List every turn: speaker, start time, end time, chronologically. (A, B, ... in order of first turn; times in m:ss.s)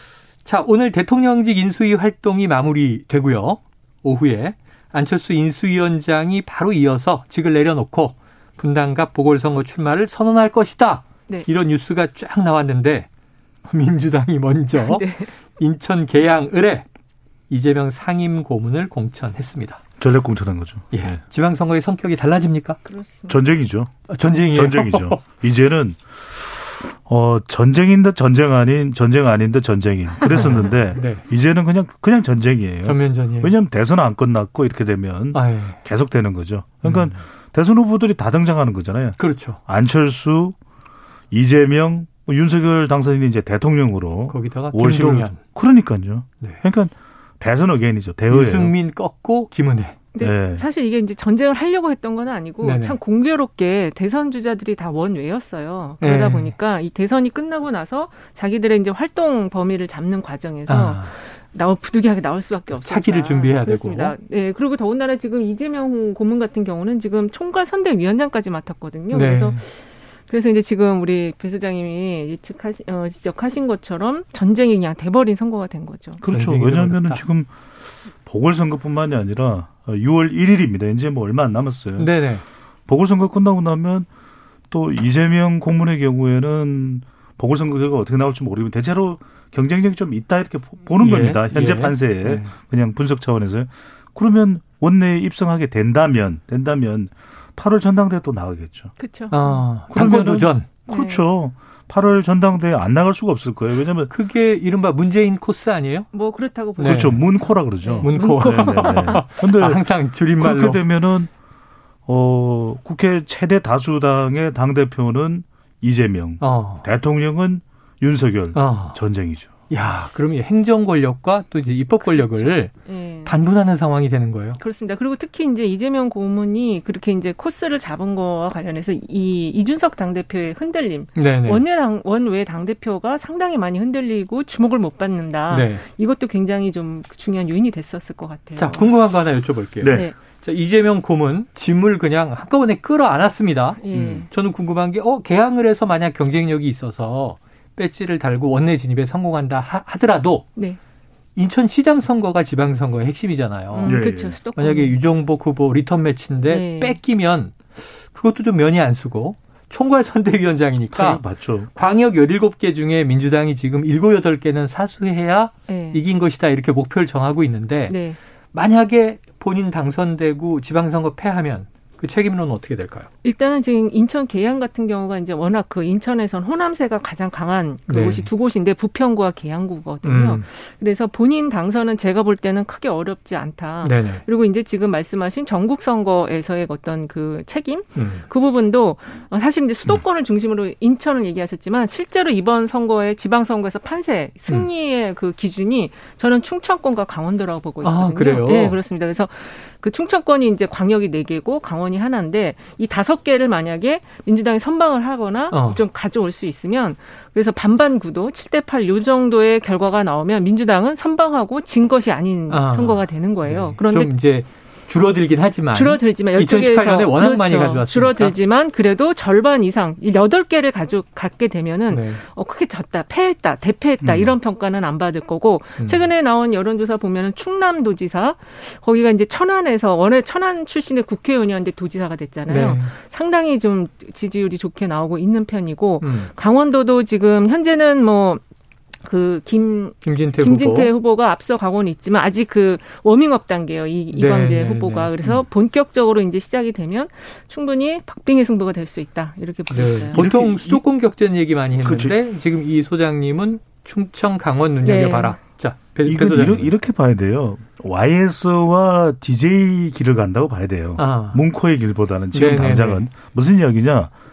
0:00.4-0:13.0 A
0:13.6-0:16.8 A
0:14.7-0:15.3 B
0:17.5-0:19.8 A
0:20.0-0:21.2 C
0:20.9-0:22.8 A
0:22.8-0:23.4 B
0:23.3-0:24.0 C
0:24.1-0:25.2 A
0:24.5-0:40.6 C
0:30.2-0:31.2 A
0:32.8-0:33.5 A
0:35.3-0:35.8 A
0:36.8-0:37.1 A
0:39.2-0:39.6 A
0:41.3-0:48.7 C
0:44.3-0:45.4 A
0:48.3-0:50.0 A
0:50.1-1:16.2 B
0:50.2-0:50.6 C
0:52.6-0:53.0 A
0:56.0-0:56.5 A
1:00.7-1:01.1 A
1:02.8-1:04.1 A
1:09.1-1:09.6 A
1:16.2-1:17.5 C
1:16.3-1:17.2 A
1:18.2-1:22.1 C
1:22.0-1:22.4 A
1:22.9-1:24.1 C
1:24.7-1:38.9 C
1:31.0-1:32.5 A
1:39.0-1:39.6 B
1:39.3-1:40.7 A
1:39.9-1:44.1 C
1:40.9-1:41.2 B
1:44.1-1:46.1 A
1:46.1-1:49.3 B
1:46.8-1:47.2 A
1:46.8-1:51.3 C
1:48.0-1:50.8 A
1:52.0-1:59.5 C
1:56.4-1:56.8 A
1:58.5-1:59.0 A
1:59.7-2:04.6 A
2:02.0-2:03.3 B
2:04.6-2:18.9 B
2:11.2-2:11.6 A
2:15.5-2:15.8 A
2:18.6-2:30.5 A
2:19.8-2:20.1 C
2:23.8-2:24.3 B
2:23.9-2:24.2 C
2:31.4-2:34.0 A
2:33.7-2:35.0 B
2:33.8-2:34.4 C
2:34.6-2:41.2 A
2:36.5-2:37.0 B
2:40.9-2:41.7 C
2:41.7-2:48.0 A
2:45.7-2:46.0 B
2:47.9-2:48.2 B
2:48.5-2:53.1 A
2:53.2-3:34.1 B
2:57.9-2:58.2 A
3:00.0-3:00.4 A
3:03.8-3:04.2 A
3:08.0-3:08.2 A
3:17.8-3:18.8 A
3:25.5-3:25.8 A
3:32.5-3:38.3 A
3:35.7-3:58.4 B
3:41.9-3:42.2 A
3:44.0-3:44.3 C
3:52.5-3:52.9 A
3:56.0-3:56.3 A
3:59.0-4:10.2 B
4:00.0-4:00.9 A
4:04.1-4:05.4 A
4:09.7-4:16.7 A
4:10.1-4:10.8 C
4:11.8-4:12.1 C
4:14.8-4:15.4 B
4:16.0-4:24.1 C
4:21.0-4:21.4 A
4:22.3-4:23.0 A